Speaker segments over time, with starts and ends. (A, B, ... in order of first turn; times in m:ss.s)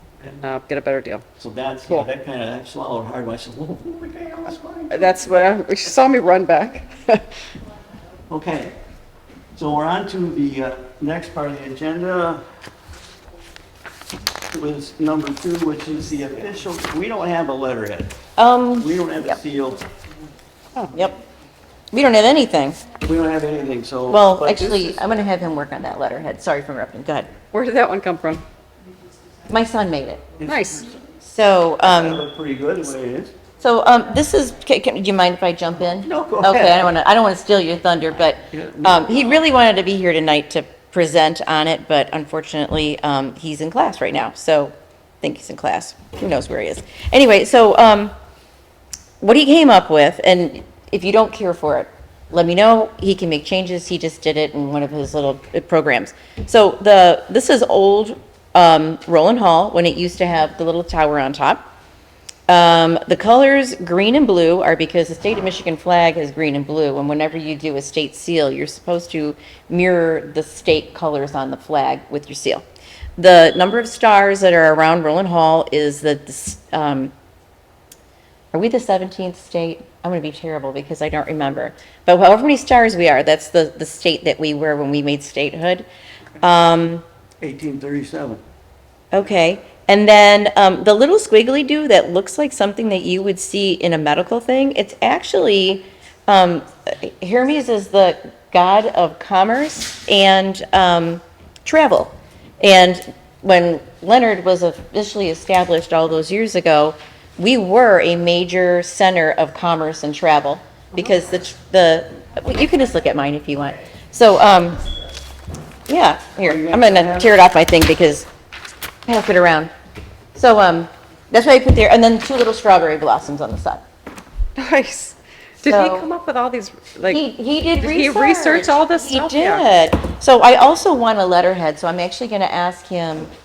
0:00.2-0:01.2 A
0:01.4-0:05.3 B
0:04.9-0:07.4 A
0:08.3-0:08.7 B
0:09.6-0:12.4 B
0:14.5-0:18.2 B
0:18.4-0:19.4 C
0:18.8-0:19.8 B
0:20.9-0:21.2 C
0:21.9-0:22.8 C
0:23.0-0:25.1 B
0:24.1-0:27.3 C
0:27.5-0:28.4 A
0:29.5-0:30.4 C
0:30.4-0:31.1 B
0:30.4-0:30.9 A
0:31.2-0:32.2 C
0:31.8-0:33.4 B
0:33.6-0:48.1 C
0:36.0-0:36.9 B
0:38.5-0:39.3 B
0:49.2-1:01.7 C
1:02.5-1:12.6 C
1:13.2-1:17.1 C
1:18.5-1:25.9 C
1:26.4-1:27.0 C
1:27.4-1:28.4 B
1:29.1-1:54.8 C
1:55.9-1:58.3 C
1:56.4-1:57.3 B
1:59.1-1:59.7 C
2:00.4-2:03.8 C
2:04.6-2:07.2 A
2:05.6-2:06.1 C
2:07.1-2:13.3 C
2:07.8-2:09.7 A